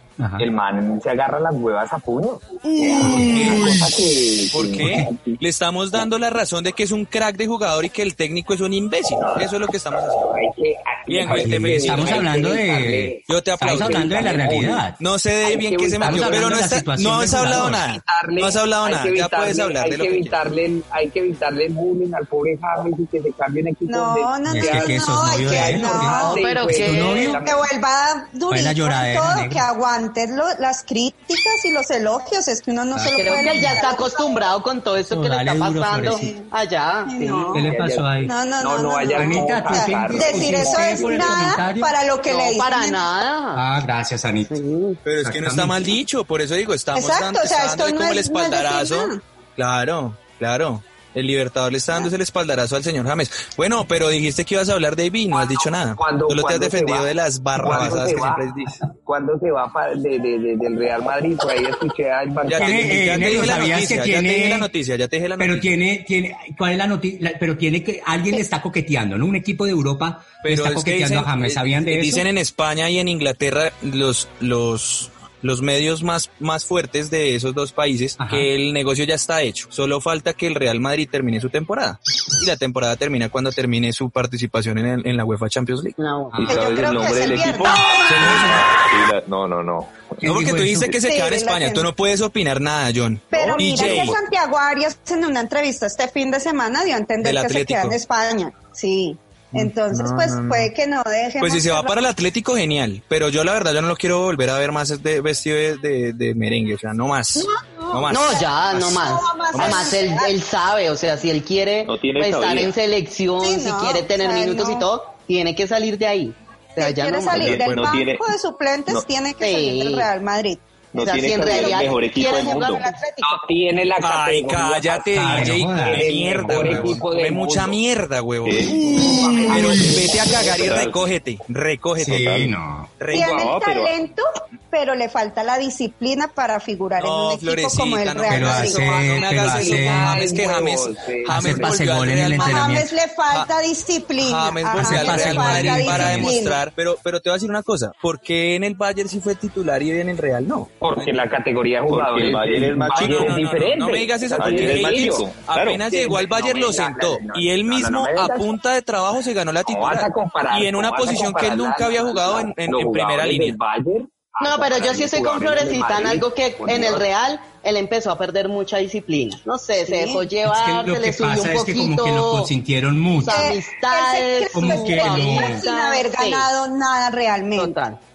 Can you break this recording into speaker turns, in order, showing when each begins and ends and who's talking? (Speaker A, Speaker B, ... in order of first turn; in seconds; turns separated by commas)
Speaker A: 0.2-0.5, Speaker B: 0.4-5.4, Speaker C: 2.8-3.2, Speaker A: 3.0-3.9, Speaker D: 3.2-3.8, Speaker D: 4.5-10.2, Speaker A: 4.8-5.1, Speaker B: 10.1-14.8, Speaker D: 11.1-12.3, Speaker A: 11.3-15.0, Speaker D: 13.3-14.3, Speaker D: 15.0-20.4, Speaker B: 15.4-16.9, Speaker A: 16.0-17.8, Speaker B: 17.4-27.7, Speaker C: 23.9-26.4, Speaker A: 24.5-27.4, Speaker E: 26.0-27.3, Speaker C: 27.4-34.4, Speaker A: 28.5-29.6, Speaker A: 32.9-33.9, Speaker E: 33.1-37.6, Speaker A: 35.1-36.3, Speaker C: 36.0-36.5, Speaker C: 37.1-37.6, Speaker A: 37.5-38.3, Speaker B: 37.6-41.5, Speaker C: 38.2-43.1, Speaker A: 39.1-41.9, Speaker E: 42.3-43.6, Speaker A: 43.5-44.6, Speaker E: 44.5-45.0, Speaker D: 45.0-58.8, Speaker A: 45.2-46.0, Speaker C: 46.9-49.2, Speaker B: 56.0-63.5, Speaker D: 62.5-65.7, Speaker A: 62.6-64.7, Speaker A: 65.4-72.3, Speaker D: 70.4-86.0, Speaker A: 78.2-78.5, Speaker E: 86.0-86.4, Speaker A: 86.3-86.7, Speaker F: 86.4-90.2, Speaker C: 86.5-88.5, Speaker D: 88.0-88.5, Speaker A: 90.2-90.9, Speaker D: 90.2-94.2, Speaker C: 90.9-91.9, Speaker C: 93.3-101.9, Speaker F: 93.8-94.1, Speaker D: 97.2-98.0, Speaker D: 99.5-100.7, Speaker D: 101.4-108.2, Speaker C: 107.4-110.3, Speaker E: 108.1-117.6, Speaker D: 109.5-110.0, Speaker F: 111.8-112.7, Speaker C: 113.4-114.9, Speaker C: 116.8-123.2, Speaker F: 117.3-118.3, Speaker E: 119.4-120.1, Speaker F: 120.9-122.8, Speaker E: 121.0-123.0, Speaker B: 123.2-127.8, Speaker D: 124.0-128.7, Speaker A: 125.2-127.0, Speaker F: 128.4-128.9, Speaker B: 128.8-130.4, Speaker D: 129.4-132.3, Speaker F: 130.1-131.0, Speaker A: 132.0-132.9, Speaker F: 132.0-132.5, Speaker D: 133.0-133.4, Speaker C: 133.1-139.2, Speaker F: 133.2-133.9, Speaker D: 137.0-143.5, Speaker A: 138.3-140.2, Speaker B: 139.2-141.8, Speaker A: 141.2-142.9, Speaker C: 142.4-146.7, Speaker D: 144.2-151.2, Speaker A: 144.7-146.3, Speaker B: 150.8-155.3, Speaker F: 151.9-153.4, Speaker D: 152.9-163.6, Speaker F: 154.4-155.8, Speaker B: 155.9-158.5, Speaker B: 159.7-167.1, Speaker E: 164.4-172.5, Speaker C: 169.9-170.3, Speaker A: 170.4-173.4, Speaker E: 173.2-176.5, Speaker C: 173.2-177.8, Speaker A: 174.5-175.6, Speaker E: 177.6-178.0